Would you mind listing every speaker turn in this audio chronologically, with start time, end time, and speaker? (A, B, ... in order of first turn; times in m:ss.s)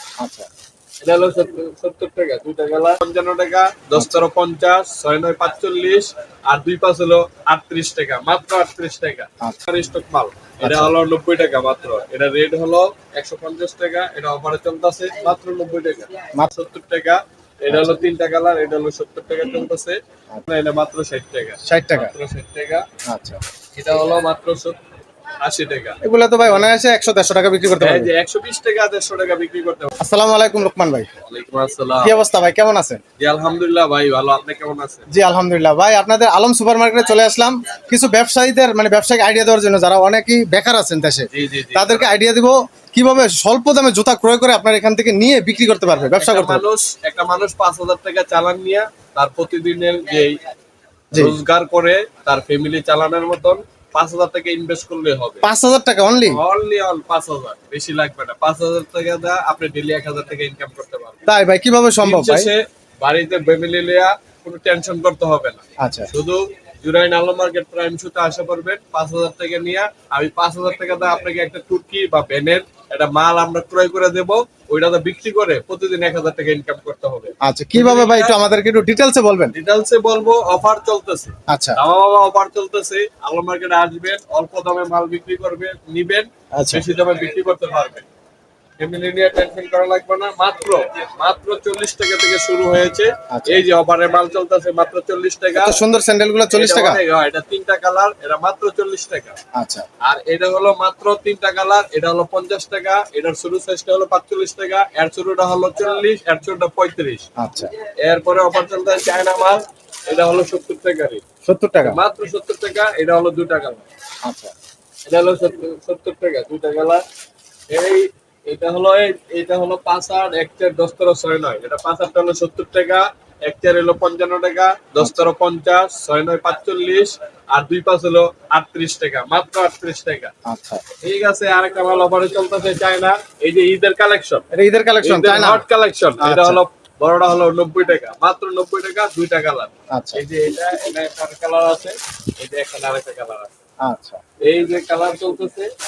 0:00.2-0:00.5 A
0:01.0-0:22.8 B
0:03.9-0:04.2 A
0:10.6-0:10.9 A
0:17.7-0:18.0 A
0:21.6-0:22.1 A
0:23.1-0:23.4 A
0:23.8-0:24.8 B
0:25.4-0:26.0 B
0:26.0-0:28.1 A
0:27.8-0:29.9 B
0:30.0-0:31.1 A
0:31.2-0:32.2 B
0:32.0-0:33.0 A
0:33.2-0:35.1 B
0:35.1-0:46.6 A
0:41.3-0:42.1 B
0:46.2-0:50.4 B
0:51.1-0:51.4 A
0:51.1-0:55.4 B
0:55.4-0:56.4 A
0:56.2-1:01.2 B
1:01.3-1:02.5 A
1:02.0-1:18.3 B
1:05.8-1:06.1 A
1:17.4-1:19.5 A
1:19.5-1:28.1 B
1:21.5-1:21.8 A
1:26.5-1:26.8 A
1:28.8-1:35.8 B
1:33.3-1:33.7 A
1:35.5-1:37.0 A
1:36.5-1:39.4 B
1:39.5-1:39.9 A
1:40.0-1:47.3 B
1:47.4-1:47.7 A
1:48.0-1:51.2 B
1:51.4-1:52.0 A
1:51.8-1:53.8 B
1:54.2-1:54.5 A
1:55.1-1:57.0 B
1:57.7-2:10.3 B
2:05.0-2:05.3 A
2:10.4-2:10.8 A
2:11.0-2:14.4 B
2:14.5-2:15.6 A
2:15.0-2:23.5 B
2:16.2-2:16.6 A
2:19.9-2:20.2 A
2:23.8-2:24.2 A
2:24.4-2:25.7 B